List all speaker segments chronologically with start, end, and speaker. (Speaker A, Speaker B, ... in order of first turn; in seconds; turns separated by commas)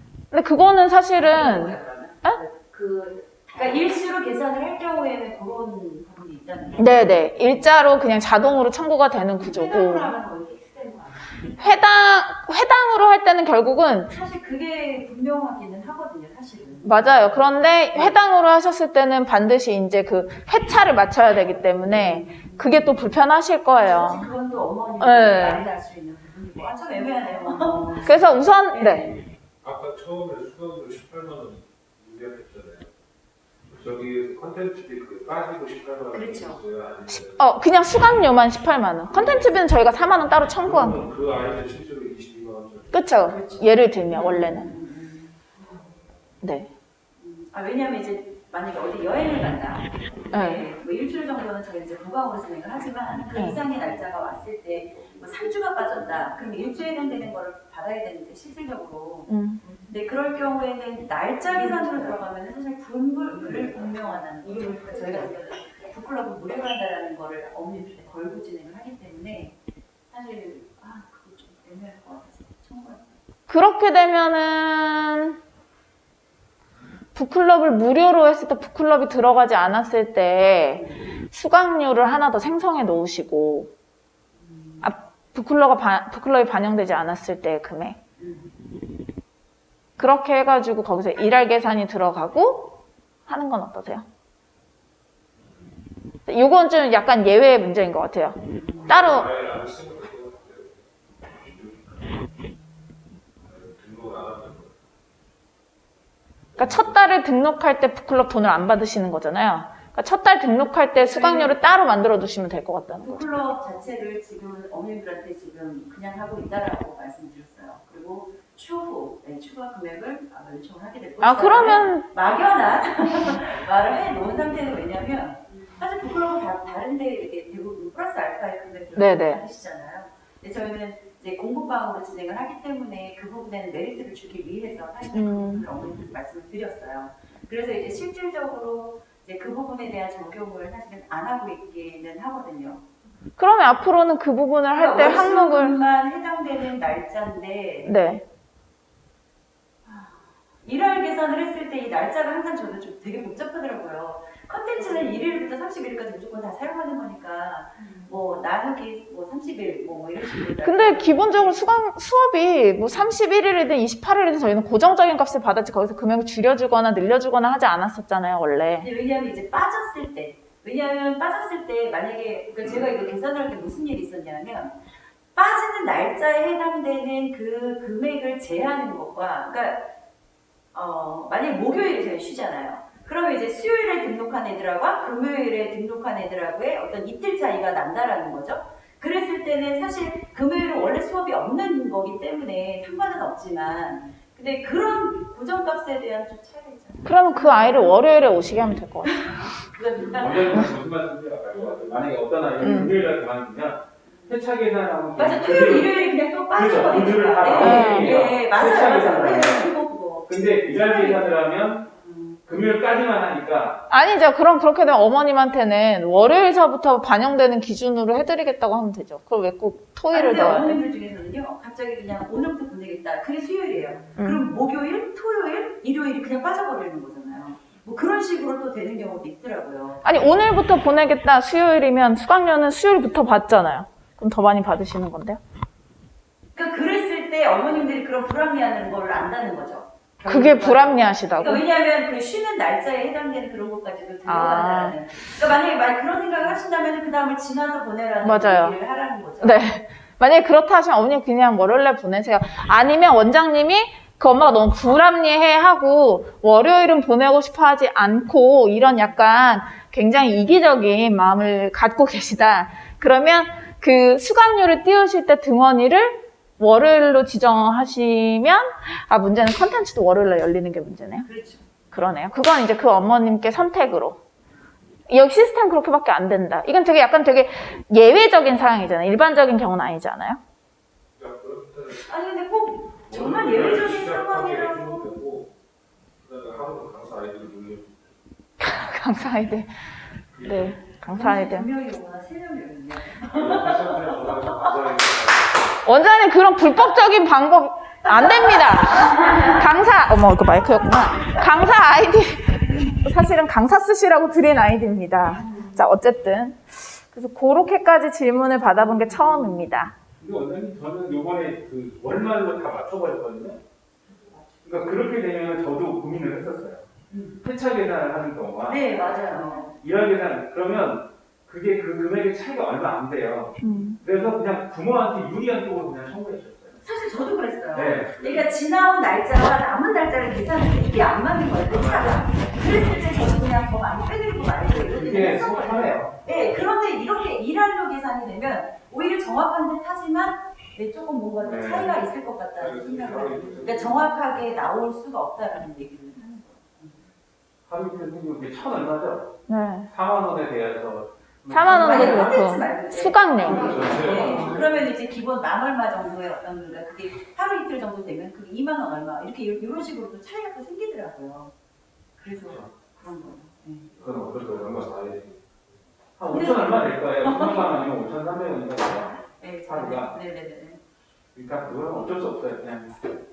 Speaker A: 0.3-2.4, Speaker B: 1.2-7.5, Speaker A: 6.8-10.1, Speaker B: 9.4-11.6, Speaker A: 11.6-14.1, Speaker B: 14.1-18.1, Speaker A: 16.8-24.3, Speaker B: 21.9-22.9, Speaker B: 23.8-29.2, Speaker A: 25.0-25.6, Speaker A: 28.0-29.1, Speaker C: 29.6-32.9, Speaker C: 33.7-37.4, Speaker B: 36.1-36.6, Speaker A: 37.1-41.0, Speaker C: 39.1-39.5, Speaker C: 40.6-43.6, Speaker A: 42.9-44.7, Speaker B: 43.2-45.9, Speaker A: 46.4-46.7, Speaker B: 47.2-69.5, Speaker A: 50.3-50.6, Speaker A: 53.3-53.6, Speaker A: 59.3-59.6, Speaker C: 63.5-63.9, Speaker B: 70.1-73.2, Speaker A: 73.5-75.4, Speaker A: 77.1-83.7, Speaker B: 84.4-84.9, Speaker A: 84.8-88.0, Speaker B: 88.2-88.5, Speaker A: 90.0-94.1, Speaker A: 96.3-99.3, Speaker B: 98.6-98.9, Speaker C: 98.8-102.2, Speaker C: 103.4-104.8, Speaker C: 106.5-107.0, Speaker A: 106.6-113.3, Speaker B: 111.0-111.6, Speaker B: 113.0-142.8, Speaker A: 121.2-122.1, Speaker A: 128.9-129.4, Speaker A: 135.1-135.7, Speaker A: 143.4-145.8, Speaker B: 144.8-147.9, Speaker A: 147.8-148.2, Speaker B: 149.9-161.6, Speaker A: 160.6-168.9, Speaker B: 168.8-174.8, Speaker B: 175.3-179.9, Speaker B: 180.7-198.0, Speaker A: 197.0-199.2, Speaker B: 199.1-200.7, Speaker D: 200.0-205.9, Speaker A: 202.6-202.9, Speaker B: 204.1-204.3, Speaker B: 205.2-211.3, Speaker D: 206.5-209.7, Speaker A: 207.6-208.2, Speaker D: 210.3-211.9, Speaker B: 211.8-212.4, Speaker D: 212.4-213.8, Speaker A: 213.9-220.8, Speaker B: 220.1-230.0, Speaker A: 224.2-224.4, Speaker A: 230.0-235.4, Speaker B: 236.5-249.7, Speaker A: 240.2-241.6, Speaker A: 244.2-244.9, Speaker A: 248.2-248.8, Speaker A: 249.4-271.2, Speaker B: 271.2-271.6, Speaker A: 271.9-274.2, Speaker A: 275.1-280.4, Speaker C: 281.1-282.1, Speaker B: 282.1-285.1, Speaker C: 283.1-285.5, Speaker C: 286.2-288.2, Speaker A: 288.6-289.7, Speaker C: 290.4-290.7, Speaker A: 290.4-291.7, Speaker B: 291.1-294.7, Speaker C: 293.3-295.7, Speaker A: 295.8-309.9, Speaker B: 299.1-299.6, Speaker D: 310.2-313.6, Speaker B: 314.1-314.5, Speaker D: 314.6-316.9, Speaker B: 317.1-317.4, Speaker D: 317.4-319.1, Speaker B: 318.6-319.8, Speaker D: 319.8-326.8, Speaker A: 323.6-324.0, Speaker B: 326.8-347.0, Speaker D: 327.7-328.5, Speaker D: 331.7-332.6, Speaker D: 334.8-336.6, Speaker D: 341.4-342.0, Speaker C: 342.6-344.2, Speaker D: 347.7-349.4, Speaker A: 349.5-349.9, Speaker D: 349.9-352.5, Speaker A: 351.5-353.7, Speaker B: 351.6-361.5, Speaker D: 353.4-354.6, Speaker C: 353.4-354.8, Speaker B: 362.2-363.9, Speaker C: 364.0-365.5, Speaker D: 366.2-370.2, Speaker B: 366.3-367.7, Speaker B: 369.3-370.8, Speaker D: 371.3-373.1